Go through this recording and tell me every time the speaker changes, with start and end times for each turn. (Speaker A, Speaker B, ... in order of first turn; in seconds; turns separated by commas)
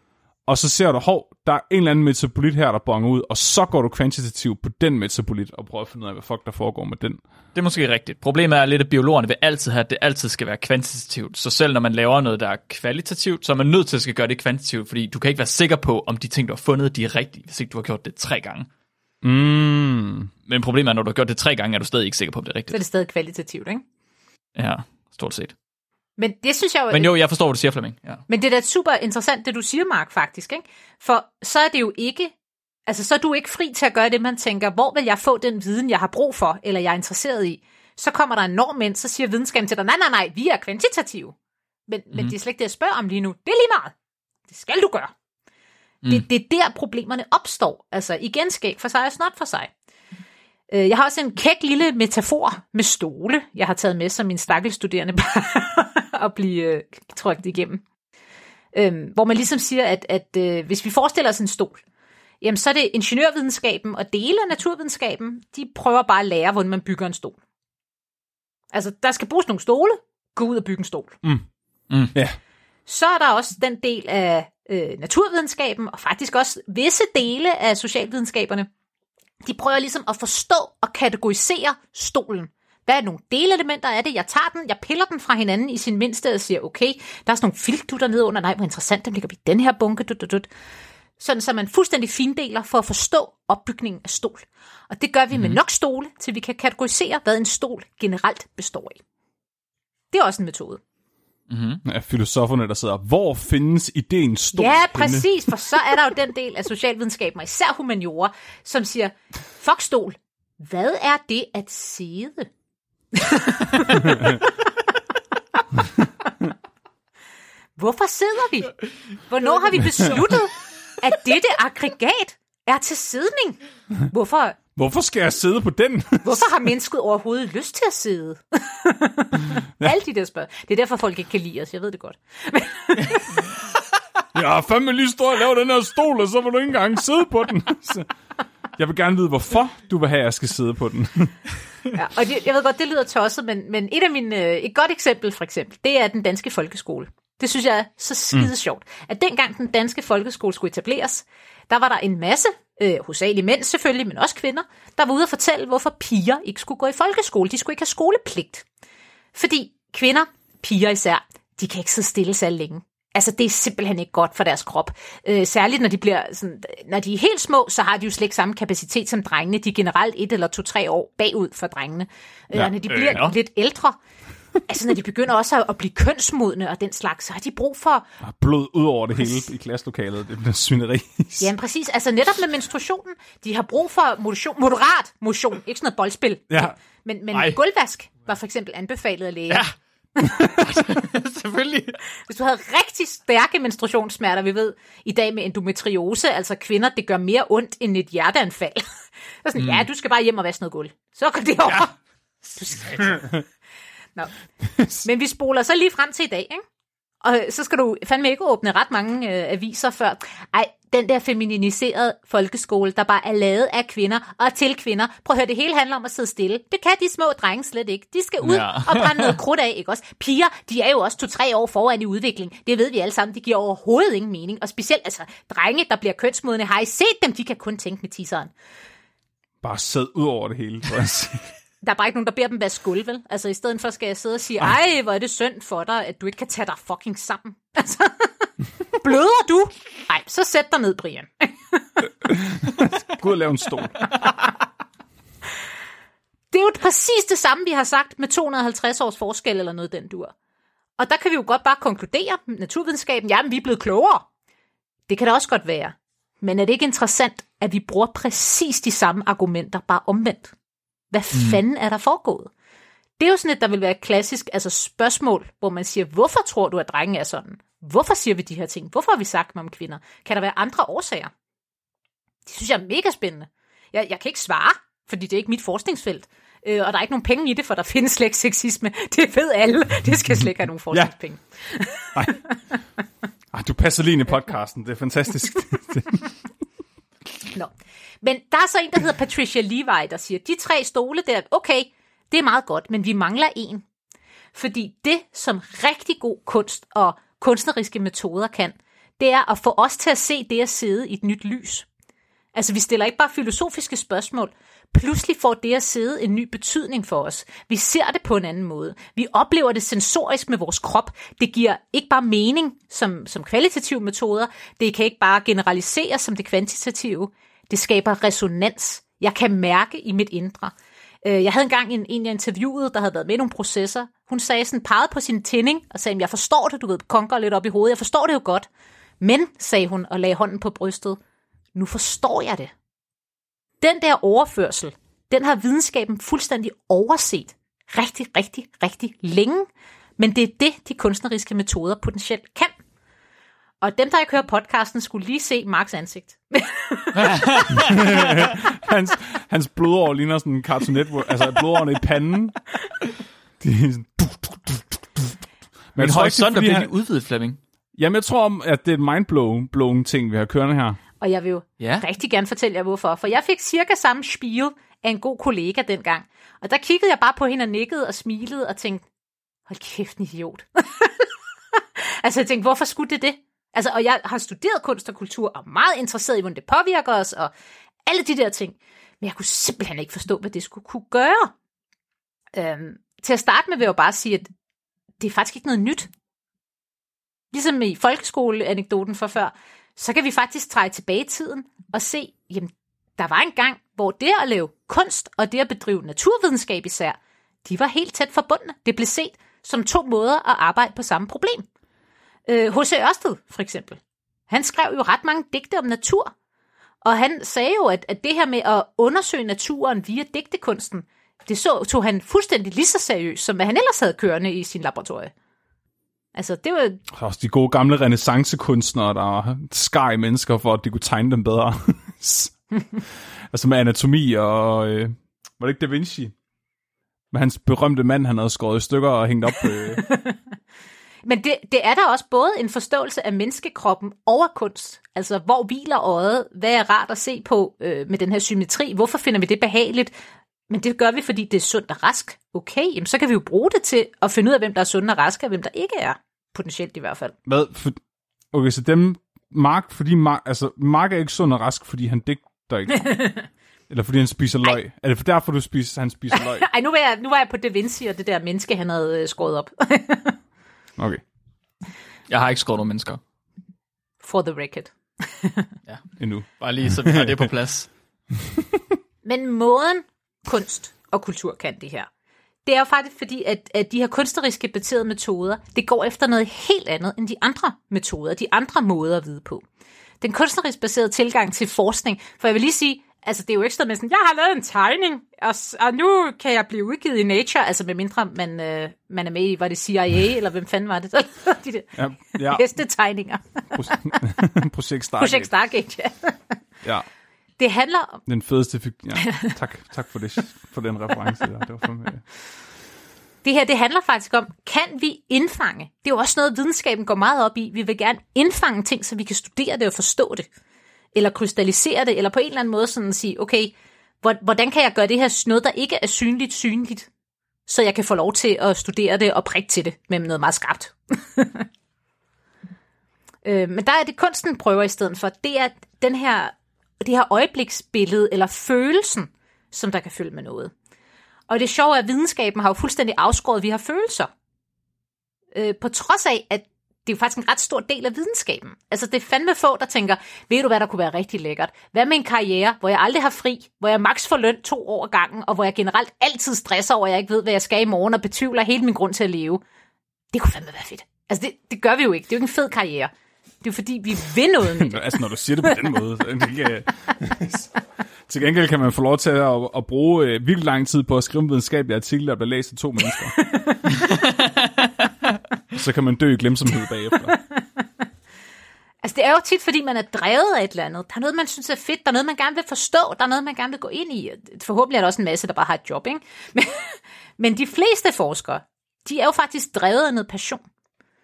Speaker A: 0.5-7.2, Speaker B: 7.5-18.7, Speaker A: 19.2-20.3, Speaker B: 20.4-22.8, Speaker C: 22.7-23.8, Speaker B: 24.6-25.5, Speaker C: 26.2-27.1, Speaker B: 26.9-28.2, Speaker C: 28.3-32.3, Speaker C: 32.9-41.4, Speaker C: 41.9-43.9, Speaker C: 44.5-45.1, Speaker C: 46.1-49.7, Speaker C: 50.7-57.8, Speaker C: 58.7-61.8, Speaker C: 62.4-67.4, Speaker C: 68.7-71.2, Speaker C: 72.9-78.7, Speaker C: 79.4-90.5, Speaker C: 91.2-99.0, Speaker B: 95.3-95.6, Speaker C: 100.1-100.8, Speaker B: 101.5-101.8, Speaker A: 101.8-105.3, Speaker C: 104.5-112.5, Speaker C: 113.1-114.5, Speaker C: 117.8-118.8, Speaker C: 119.3-124.6, Speaker A: 124.8-126.5, Speaker C: 126.2-133.5, Speaker A: 134.3-138.1, Speaker A: 138.8-141.3, Speaker C: 141.9-158.6, Speaker C: 159.3-174.0, Speaker A: 172.6-173.2, Speaker B: 173.0-173.3, Speaker C: 174.7-178.1, Speaker A: 178.2-181.5, Speaker C: 181.4-190.6, Speaker B: 187.3-187.6, Speaker B: 190.7-192.0, Speaker C: 192.3-198.9, Speaker C: 199.4-201.9, Speaker B: 199.6-199.8, Speaker C: 202.6-203.2, Speaker B: 202.6-203.2, Speaker C: 205.0-206.6, Speaker C: 207.2-228.5, Speaker B: 218.4-219.3, Speaker A: 229.6-231.5, Speaker C: 231.8-241.8, Speaker A: 242.2-244.0, Speaker C: 246.5-250.3, Speaker C: 251.0-254.3, Speaker C: 255.1-260.6, Speaker C: 261.1-262.5, Speaker B: 261.3-261.6, Speaker C: 263.2-271.3, Speaker C: 272.4-282.4, Speaker A: 282.1-282.4, Speaker A: 283.5-286.3, Speaker C: 288.2-293.8, Speaker C: 294.5-301.9, Speaker C: 302.6-320.7, Speaker C: 321.2-328.7, Speaker C: 329.2-331.2, Speaker C: 331.7-332.7, Speaker C: 333.8-342.7, Speaker C: 343.8-348.0, Speaker B: 347.2-348.0, Speaker A: 347.8-352.6, Speaker A: 353.6-355.4, Speaker A: 355.9-356.9, Speaker B: 356.0-357.6, Speaker A: 357.9-361.0, Speaker C: 361.2-369.0, Speaker B: 361.8-362.1, Speaker C: 369.7-377.5, Speaker C: 378.1-381.5, Speaker C: 382.6-384.5, Speaker C: 385.2-386.1, Speaker C: 387.5-401.7, Speaker C: 402.5-406.3, Speaker C: 407.0-415.3, Speaker C: 416.3-417.0, Speaker A: 417.1-422.5, Speaker A: 423.5-426.3, Speaker A: 427.3-430.1, Speaker C: 430.0-430.4, Speaker C: 431.2-440.1, Speaker C: 440.7-447.3, Speaker A: 447.4-448.0, Speaker A: 448.5-453.3, Speaker C: 453.0-453.4, Speaker A: 453.9-456.7, Speaker C: 456.3-460.4, Speaker A: 461.0-461.2, Speaker B: 462.3-463.2, Speaker C: 464.2-465.7, Speaker A: 466.2-467.5, Speaker B: 466.6-467.9, Speaker A: 468.4-468.9, Speaker C: 469.2-472.1, Speaker C: 472.7-479.6, Speaker C: 480.2-494.2, Speaker A: 491.9-492.6, Speaker A: 493.7-495.5, Speaker C: 495.2-496.6, Speaker C: 497.6-498.2, Speaker A: 498.3-502.2, Speaker C: 499.2-499.5, Speaker C: 503.4-510.5, Speaker C: 511.1-517.1, Speaker C: 517.7-521.7, Speaker C: 523.5-530.7, Speaker C: 531.5-534.3, Speaker C: 535.5-549.6, Speaker C: 550.3-553.1, Speaker C: 553.6-555.1, Speaker A: 554.7-557.7, Speaker A: 558.3-563.4, Speaker C: 563.3-563.8, Speaker A: 565.7-567.4, Speaker C: 569.0-580.6